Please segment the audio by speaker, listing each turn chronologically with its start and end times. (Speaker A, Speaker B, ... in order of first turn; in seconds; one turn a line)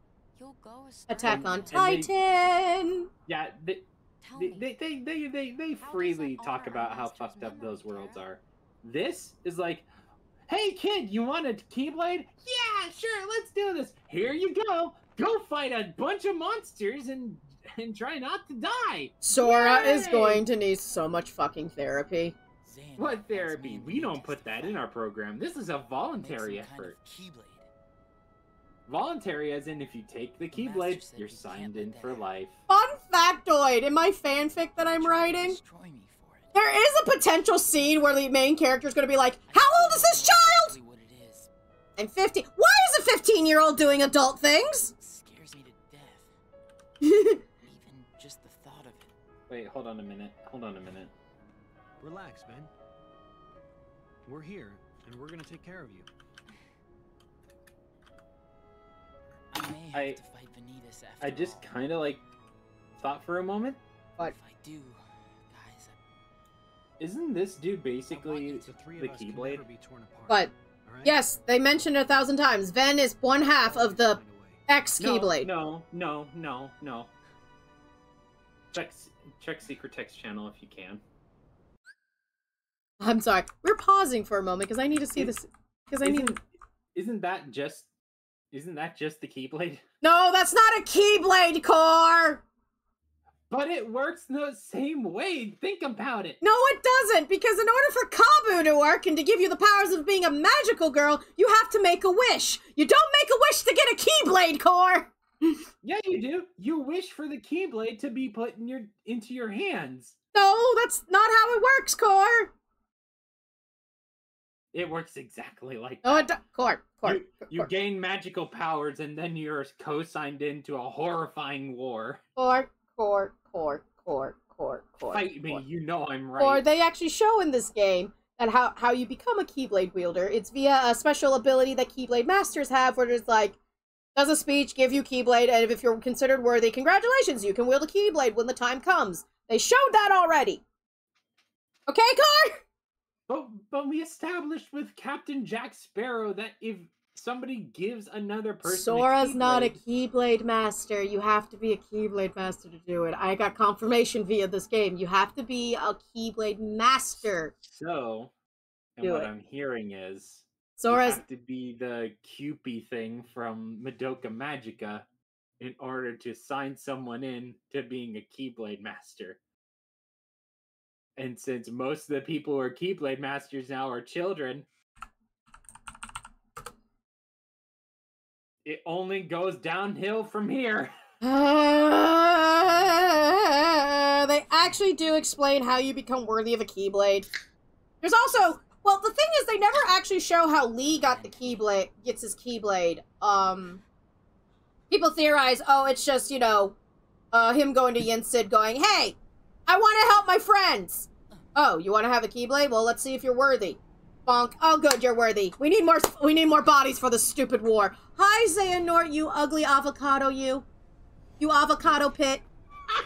Speaker A: 0.4-1.7
Speaker B: 1.1-3.1
Speaker C: 1.3-2.1
Speaker C: 3.3-9.9
Speaker A: 6.9-8.2
Speaker C: 10.5-20.4
Speaker B: 19.2-22.4
Speaker A: 22.6-24.9
Speaker C: 23.0-27.0
Speaker A: 26.2-27.7
Speaker C: 28.9-32.6
Speaker A: 30.5-32.3
Speaker B: 32.7-35.6
Speaker A: 34.8-36.6
Speaker B: 36.5-40.8
Speaker A: 39.5-41.5
Speaker B: 42.0-44.9
Speaker A: 45.0-46.3
Speaker B: 47.0-47.4
Speaker A: 47.6-49.1
Speaker C: 49.5-51.1
Speaker D: 52.0-52.7
Speaker D: 54.3-56.1
Speaker A: 59.5-61.7
Speaker C: 59.9-60.2
Speaker C: 61.2-62.2
Speaker C: 63.0-63.8
Speaker A: 64.2-66.0
Speaker C: 67.0-69.7
Speaker D: 68.1-71.2
Speaker B: 71.0-75.5
Speaker D: 73.6-74.6
Speaker C: 75.0-77.1
Speaker C: 78.7-81.0
Speaker B: 83.0-86.4
Speaker C: 86.0-86.4
Speaker C: 86.9-87.9
Speaker C: 88.5-89.8
Speaker B: 90.0-92.4
Speaker C: 93.5-96.4
Speaker B: 96.4-105.6
Speaker C: 105.8-110.2
Speaker B: 110.3-112.5
Speaker C: 114.7-116.3
Speaker B: 116.0-117.7
Speaker C: 117.0-122.2
Speaker B: 122.4-125.6
Speaker C: 125.1-126.7
Speaker B: 126.4-133.6
Speaker B: 134.2-140.6
Speaker B: 141.9-142.6
Speaker C: 143.3-149.8
Speaker B: 148.6-157.5
Speaker C: 157.6-158.3
Speaker C: 159.0-165.1
Speaker B: 159.0-159.3
Speaker B: 160.8-161.2
Speaker C: 165.6-169.4
Speaker C: 171.2-174.7
Speaker C: 178.7-180.9
Speaker B: 181.2-187.3
Speaker B: 188.0-193.8
Speaker A: 191.0-191.6
Speaker B: 194.9-196.8
Speaker B: 197.3-210.7
Speaker B: 211.4-212.4